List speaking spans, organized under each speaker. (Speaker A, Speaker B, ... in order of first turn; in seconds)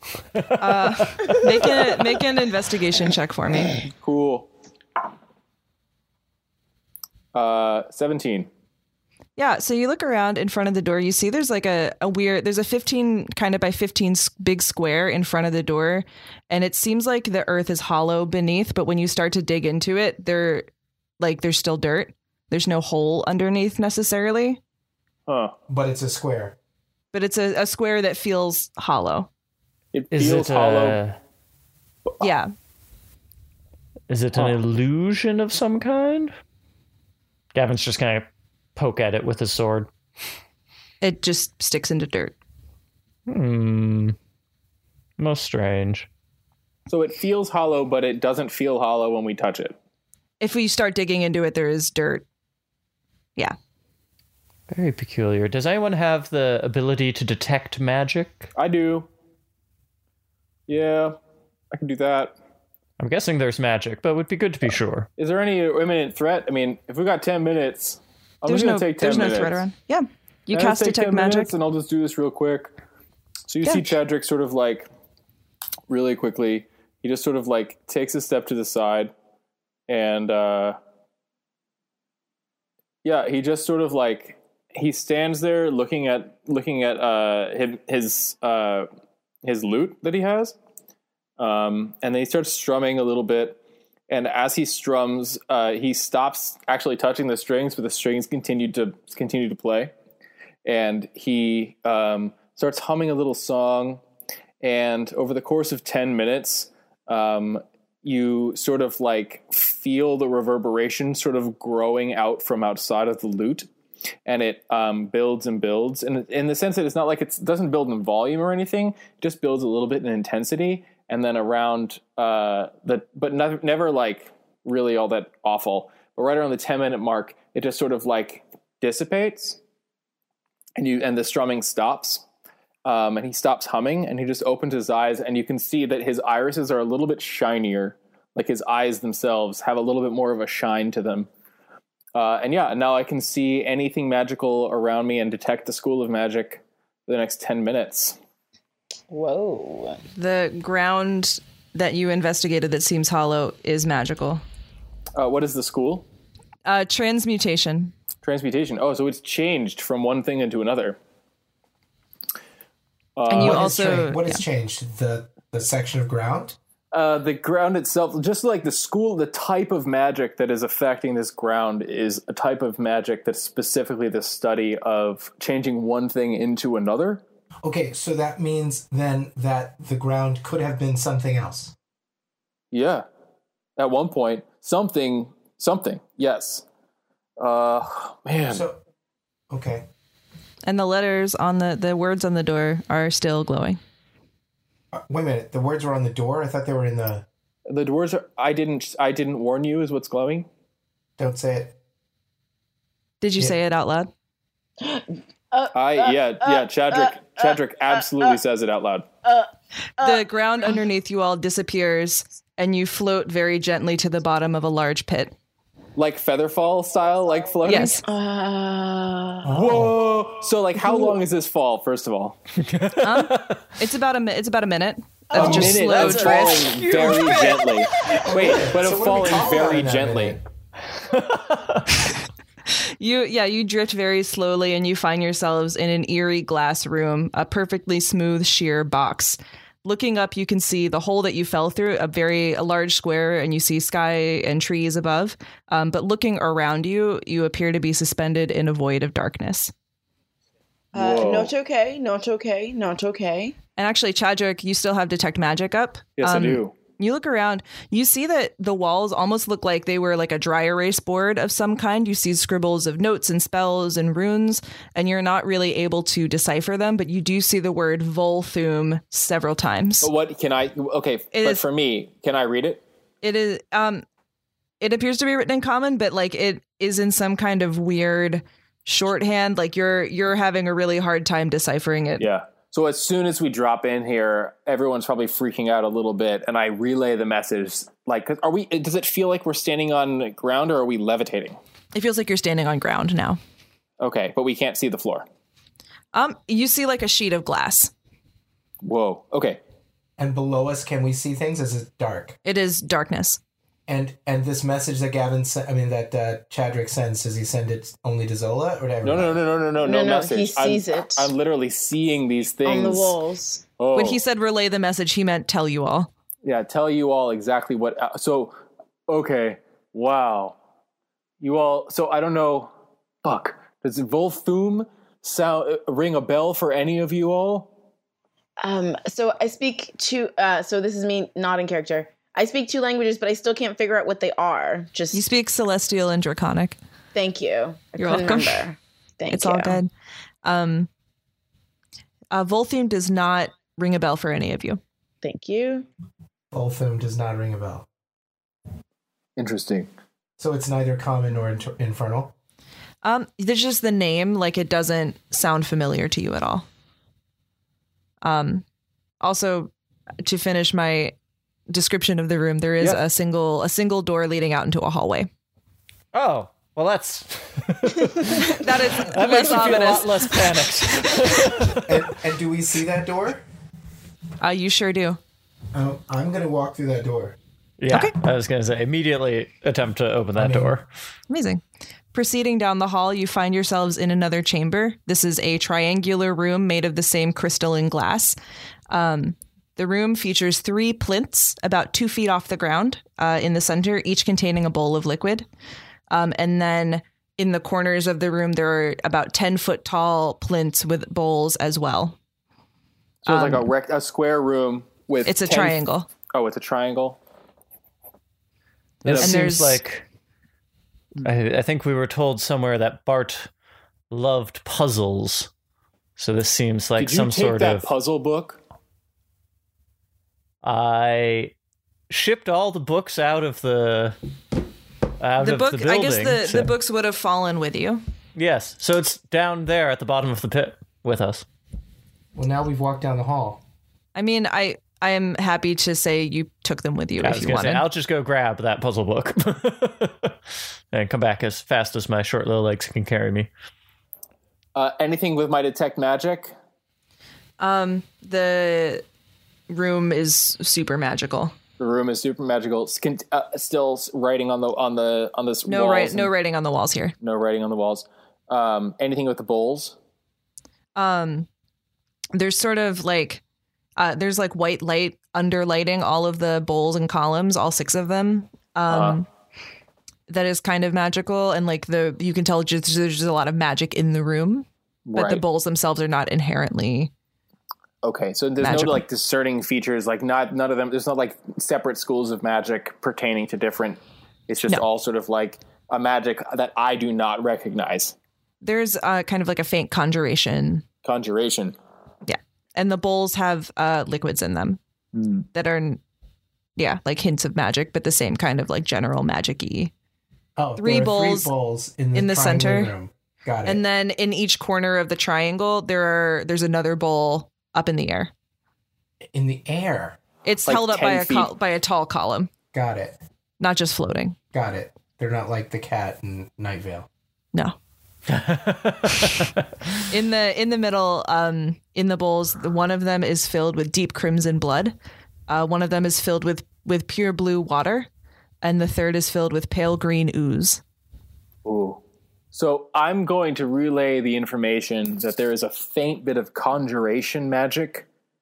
Speaker A: 0.4-1.8, 30.1-31.2, 34.1-36.3, 37.5-39.9, 43.3-44.2, 45.2-46.1, 54.7-58.5, 63.0-65.1, 222.6-223.7, 231.1-232.1, 366.1-372.0, 377.8-380.9, 409.0-410.1, 411.2-413.5, 414.1-415.5, 416.2-417.9, 420.6-421.6, 422.1-424.2, 425.2-426.7, 428.4-431.4, 437.2-440.4, 440.9-443.5, 518.3-519.6
Speaker B: 0.6-3.8, 9.4-20.7, 21.2-24.6, 27.1-29.3, 32.2-32.5, 41.0-42.4, 50.4-52.2, 68.5-71.5, 150.2-154.4, 156.7-157.9, 163.3-164.4, 190.7-193.8, 203.2-204.1, 210.0-215.3, 217.7-218.0, 223.0-227.9, 233.0-249.7, 253.8-270.1, 271.3-271.6, 273.2-274.1, 274.8-282.3, 291.9-293.4, 296.1-297.9, 302.4-303.4, 313.9-316.1, 335.1-336.8, 338.0-338.6, 339.3-339.9, 340.4-340.9, 342.3-344.8, 353.0-356.7, 358.2-358.6, 359.2-359.7, 360.2-361.2, 361.7-365.3, 368.4-370.4, 374.4-375.2, 377.9-378.2, 381.3-381.6, 382.1-388.4, 388.9-395.5, 396.1-402.2, 403.2-403.7, 405.2-406.1, 409.2-409.8, 425.4-428.0, 434.1-437.9, 447.6-449.1, 449.7-451.6, 455.7-457.1, 460.9-461.5, 462.3-463.4, 464.0-469.3, 470.3-477.1, 478.6-479.0, 488.6-490.9, 492.3-494.8, 495.5-496.0, 496.8-499.9, 500.8-501.5, 502.1-502.9, 503.7-508.3, 510.4-512.5, 513.6-514.4, 520.1-525.0, 525.5-528.1, 528.6-530.8
Speaker C: 4.0-4.5, 7.3-8.5, 25.3-25.5, 29.9-31.0, 46.9-49.8, 58.5-59.1, 60.7-61.2, 61.7-62.4, 65.2-69.6, 70.5-72.8, 73.5-74.9, 75.9-79.1, 79.9-80.8, 83.0-88.9, 89.4-90.6, 91.4-99.9, 100.7-104.0, 104.6-113.7, 114.3-129.6, 130.8-132.2, 132.8-141.3, 142.2-148.2, 155.2-156.1, 158.2-161.0, 163.2-163.7, 166.9-177.2, 182.7-183.1, 183.8-186.6, 187.4-188.7, 197.7-200.5, 205.7-209.1, 216.0-218.0, 219.5-222.4, 225.3-230.4, 250.9-251.5, 256.2-256.7, 270.0-272.8, 282.2-291.6, 294.0-295.3, 298.8-299.6, 309.0-313.2, 313.8-314.2, 316.4-318.6, 319.1-320.6, 321.4-322.7, 323.2-327.7, 349.4-349.9, 403.2-405.8, 406.3-407.2, 409.1-409.4, 417.0-418.6, 444.8-446.5, 451.8-456.3, 457.2-460.0, 468.9-469.2, 475.1-475.4, 478.0-488.1, 491.0-491.8, 495.1-495.5, 510.7-511.5, 531.6-532.0, 532.5-538.1
Speaker D: 25.7-26.6, 163.4-166.6, 177.6-181.7, 188.5-188.8, 189.5-189.9, 194.9-197.3, 201.2-201.8, 219.4-220.1, 225.3-225.8, 228.1-230.4, 300.2-302.4, 303.9-309.4, 346.5-347.9, 350.4-352.3, 371.9-373.4, 375.7-377.4, 380.4-380.8, 432.4-433.6, 500.6-503.8, 509.3-510.2, 512.7-513.2, 514.5-517.1
Speaker E: 149.1-150.0, 204.8-208.4, 209.2-210.3, 218.0-219.5, 220.8-221.1, 250.9-253.6, 309.8-311.3, 312.6-313.6, 328.6-335.3, 337.1-339.8, 345.2-345.9